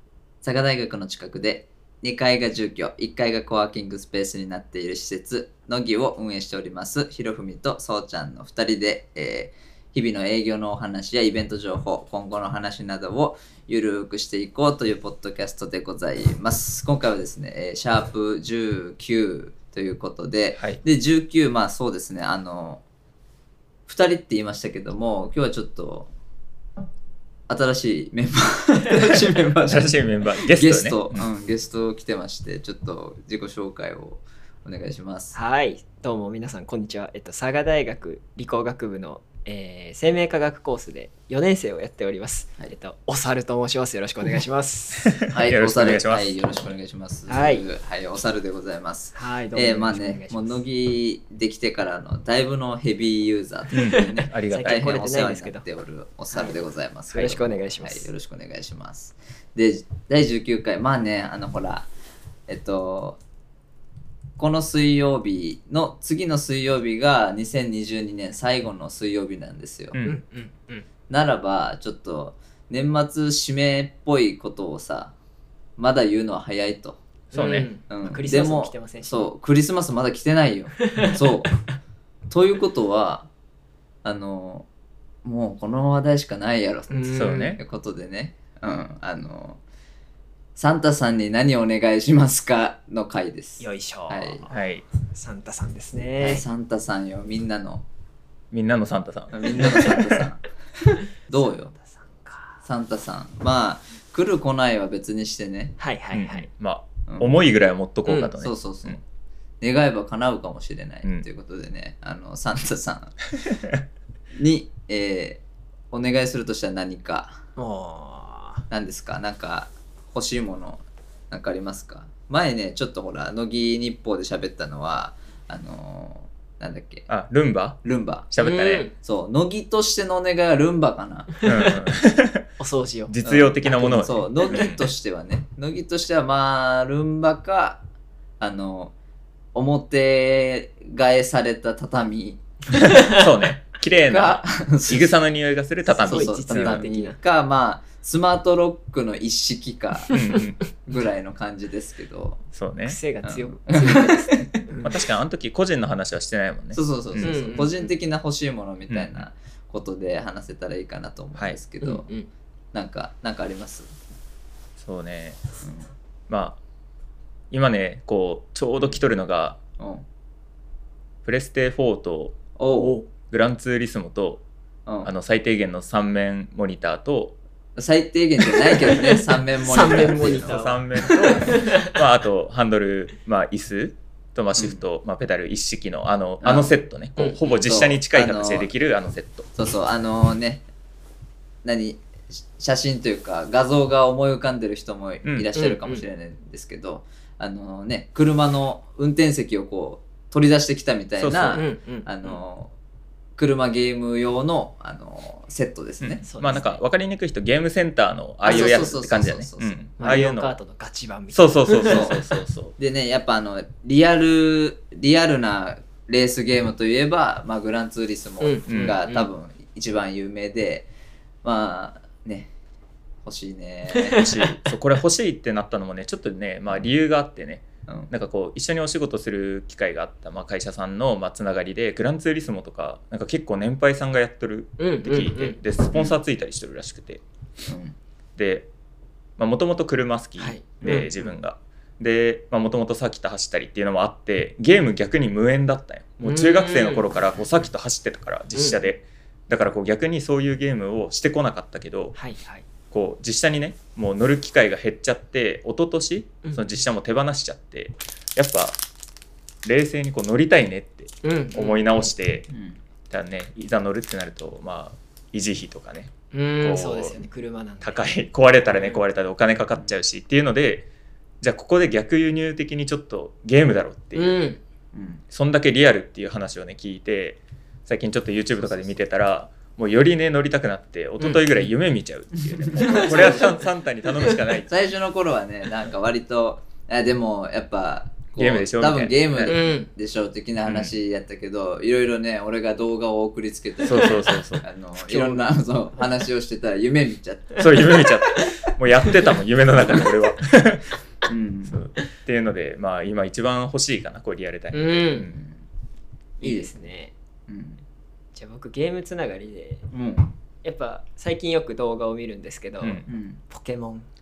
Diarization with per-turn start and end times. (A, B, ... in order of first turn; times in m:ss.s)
0:00.4-0:22.8 A
0:20.5-0:20.8 B
0:23.9-0:26.1 A
0:27.5-0:35.4 A
0:29.6-0:31.3 B
0:35.3-0:45.2 C
0:45.0-0:46.4 B
0:45.3-1:01.9 A
0:47.3-0:47.7 C
0:49.1-0:50.6 C
0:53.7-0:55.0 B
0:53.7-0:55.6 C
0:56.3-0:58.1 C
1:02.5-1:03.2 A
1:04.4-1:10.0 A
1:09.9-1:10.2 B
1:10.0-1:10.8 C
1:11.1-1:15.1 A
1:15.8-1:17.0 A
1:17.3-1:17.7 B
1:17.3-1:19.3 C
1:17.9-1:21.5 A
1:20.9-1:21.2 C
1:22.3-1:23.3 A
1:24.0-1:24.7 A
1:25.2-1:29.6 A
1:26.9-1:27.6 C
1:27.1-1:27.6 B
1:30.6-1:34.5 A
1:33.6-1:34.5 C
1:34.5-1:34.8 B
1:35.1-1:36.4 C
1:36.2-1:37.8 A
1:38.5-1:40.0 B
1:39.3-1:40.4 A
1:41.3-1:41.7 A
1:41.3-1:42.6 C
1:42.6-1:45.8 A
1:45.8-1:46.5 C
1:46.1-1:49.0 B
1:47.1-1:47.4 A
1:48.1-1:48.3 C
1:48.4-1:49.0 A
1:49.6-1:53.2 A
1:54.3-1:57.4 A
1:57.6-1:58.6 C
1:58.7-2:07.1 A
2:07.1-2:08.9 B
2:07.8-2:08.3 A
2:08.4-2:08.9 C
2:08.9-2:11.4 A
2:11.4-2:12.5 B
2:11.4-2:11.9 C
2:12.6-2:14.6 C
2:13.1-2:14.9 B
2:13.2-2:17.8 A
2:18.4-2:18.9 A
2:19.5-2:22.4 A
2:22.8-2:23.2 C
2:23.0-2:26.8 B
2:24.1-2:25.1 A
2:25.9-2:27.2 C
2:26.0-2:30.2 A
2:30.1-2:30.4 C
2:30.1-2:30.6 B
2:30.8-2:32.4 A
2:32.5-2:33.0 B
2:32.8-2:35.0 C
2:33.2-2:34.6 A
2:34.8-2:37.3 B
2:36.7-2:42.1 A
2:37.2-2:37.9 C
2:38.9-2:39.2 B
2:41.8-2:42.3 C
2:42.7-2:43.9 A
2:44.8-2:45.4 B
2:45.6-2:45.9 A
2:46.3-2:46.6 B
2:47.5-2:49.6 B
2:49.8-2:50.0 A
2:51.2-2:54.4 B
2:52.6-2:53.0 A
2:54.8-2:55.1 A
2:55.0-2:57.4 B
2:57.8-3:01.5 A
2:59.6-3:02.0 C
2:59.7-3:09.5 B
3:04.6-3:04.8 A
3:06.4-3:06.8 A
3:07.6-3:08.7 A
3:09.5-3:10.6 A
3:11.6-3:22.7 A
3:15.5-3:16.0 C
3:21.2-3:21.6 B
3:21.5-3:22.4 C
3:23.4-3:26.6 A
3:26.0-3:30.6 B
3:26.2-3:26.8 C
3:28.4-3:30.2 A
3:28.4-3:28.9 C
3:30.0-3:32.1 C
3:31.3-3:32.7 B
3:31.8-3:32.2 A
3:32.8-3:40.9 A
3:38.4-3:39.3 C
3:38.7-3:39.0 B
3:41.4-3:42.5 A
3:43.2-3:44.2 A
3:44.0-3:44.6 C
3:44.2-3:57.2 B
3:47.8-3:48.1 A
3:54.8-3:55.6 C
3:57.7-3:58.0 A
3:58.4-3:58.7 B
3:59.4-4:12.2 B
4:00.4-4:01.2 C
4:06.2-4:07.1 C
4:08.5-4:08.8 C
4:12.1-4:12.6 C
4:12.9-4:18.8 B
4:19.6-4:22.5 B
4:21.2-4:21.9 C
4:22.5-4:22.8 A
4:23.1-4:27.2 B
4:26.3-4:28.1 C
4:27.8-4:30.9 B
4:28.6-4:29.0 C
4:31.4-4:34.4 B
4:34.1-4:34.6 C
4:34.9-4:35.2 A
4:35.3-4:44.7 B
4:38.6-4:39.0 A
4:41.2-4:41.6 C
4:42.4-4:43.5 A
4:42.8-4:43.5 C
4:44.7-4:57.7 A
4:48.3-4:49.6 B
4:49.4-4:49.9 C
4:50.6-4:50.9 B
4:53.8-4:54.6 B
4:53.9-4:54.4 C
4:55.0-4:55.5 C
4:57.6-5:01.0 B
4:57.6-4:58.4 C
4:59.7-5:00.1 A
5:01.3-5:01.8 A
5:01.7-5:05.4 B
5:04.7-5:05.3 C
5:05.3-5:05.6 A
5:06.4-5:07.1 C
5:06.4-5:06.7 A
5:07.5-5:07.8 A
5:08.3-5:09.8 C
5:09.9-5:10.3 A
5:10.6-5:14.0 C
5:12.8-5:13.0 B
5:13.1-5:13.4 A